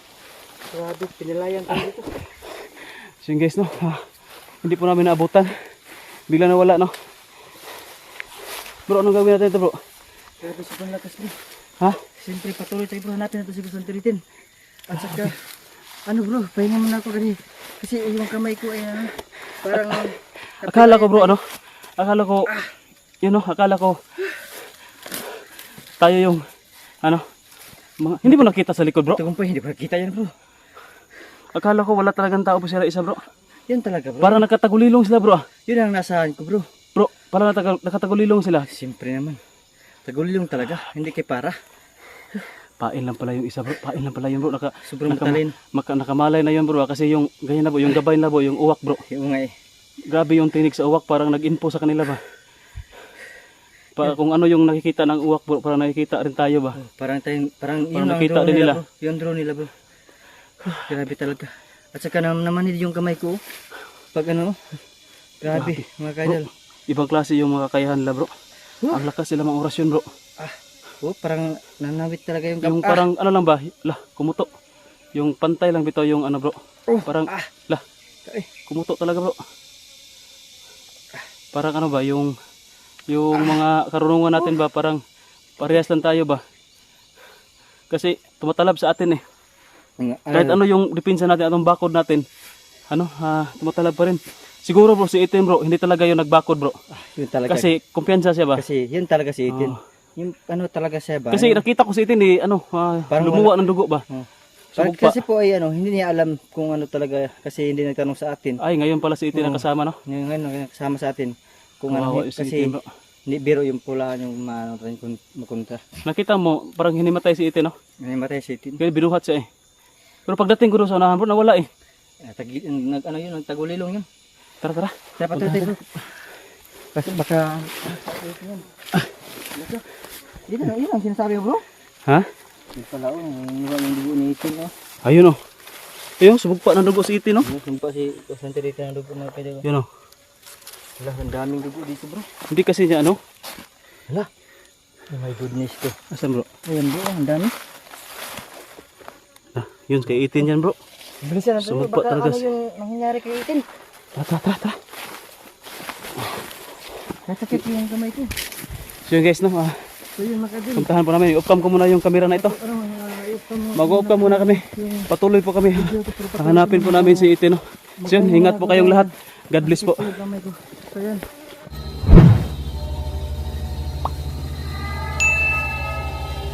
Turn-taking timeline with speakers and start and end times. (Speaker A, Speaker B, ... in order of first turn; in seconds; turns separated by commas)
Speaker A: 0.7-2.1, Speaker B: 2.5-4.1, Speaker B: 4.6-5.7, Speaker B: 6.3-6.9, Speaker B: 8.9-9.8, Speaker A: 10.4-11.4, Speaker A: 12.1-14.2, Speaker A: 14.9-15.4, Speaker B: 14.9-15.3, Speaker A: 16.1-21.4, Speaker B: 19.7-20.0, Speaker B: 20.6-21.4, Speaker B: 22.0-22.5, Speaker B: 23.2-24.0, Speaker B: 26.0-26.4, Speaker B: 28.0-29.2, Speaker A: 28.2-28.5, Speaker A: 29.1-30.3, Speaker B: 31.5-33.2, Speaker A: 33.7-34.5, Speaker B: 34.2-35.5, Speaker A: 35.7-36.7, Speaker B: 36.9-38.7, Speaker A: 38.7-39.4, Speaker A: 40.0-41.6, Speaker B: 42.8-49.0, Speaker A: 44.8-45.5, Speaker A: 49.0-49.5, Speaker B: 50.1-52.2, Speaker B: 53.9-56.8, Speaker A: 56.8-59.7, Speaker B: 57.9-58.8, Speaker A: 60.6-63.4, Speaker A: 64.1-64.8, Speaker A: 65.4-66.5, Speaker B: 65.5-68.3, Speaker B: 68.9-70.1, Speaker A: 70.4-73.0, Speaker B: 72.6-74.5, Speaker B: 75.1-77.8, Speaker A: 76.9-77.5, Speaker B: 78.7-79.4, Speaker B: 81.5-82.3, Speaker B: 83.1-85.0, Speaker B: 85.6-86.4, Speaker B: 87.9-89.2, Speaker A: 90.0-90.6, Speaker B: 90.3-92.2, Speaker B: 92.9-96.8, Speaker A: 96.9-97.7, Speaker B: 97.5-98.6, Speaker A: 98.5-101.6, Speaker B: 99.5-99.8, Speaker B: 101.3-104.0, Speaker A: 103.1-108.6, Speaker B: 104.8-105.2, Speaker B: 108.6-110.0, Speaker A: 109.3-112.8, Speaker B: 111.9-112.9, Speaker A: 113.3-116.0, Speaker B: 116.0-117.7, Speaker A: 118.0-118.8, Speaker B: 118.8-119.5, Speaker B: 120.3-121.7, Speaker A: 122.2-124.0, Speaker B: 124.6-125.7, Speaker A: 125.2-126.1, Speaker A: 126.9-128.7, Speaker A: 129.5-129.9, Speaker A: 130.4-131.6, Speaker A: 132.7-134.7, Speaker B: 135.0-135.4, Speaker B: 136.2-137.5, Speaker A: 137.4-139.6, Speaker A: 141.0-142.3, Speaker B: 142.5-143.2, Speaker A: 145.1-146.0, Speaker B: 146.1-146.5, Speaker A: 146.7-147.5, Speaker B: 149.5-150.8, Speaker A: 151.2-153.6, Speaker B: 151.6-152.4, Speaker B: 154.2-154.8, Speaker A: 157.2-158.3, Speaker B: 159.1-159.9, Speaker A: 160.2-160.9, Speaker B: 160.8-162.6, Speaker A: 162.2-165.1, Speaker B: 163.7-170.1, Speaker A: 165.7-167.3, Speaker A: 168.0-171.2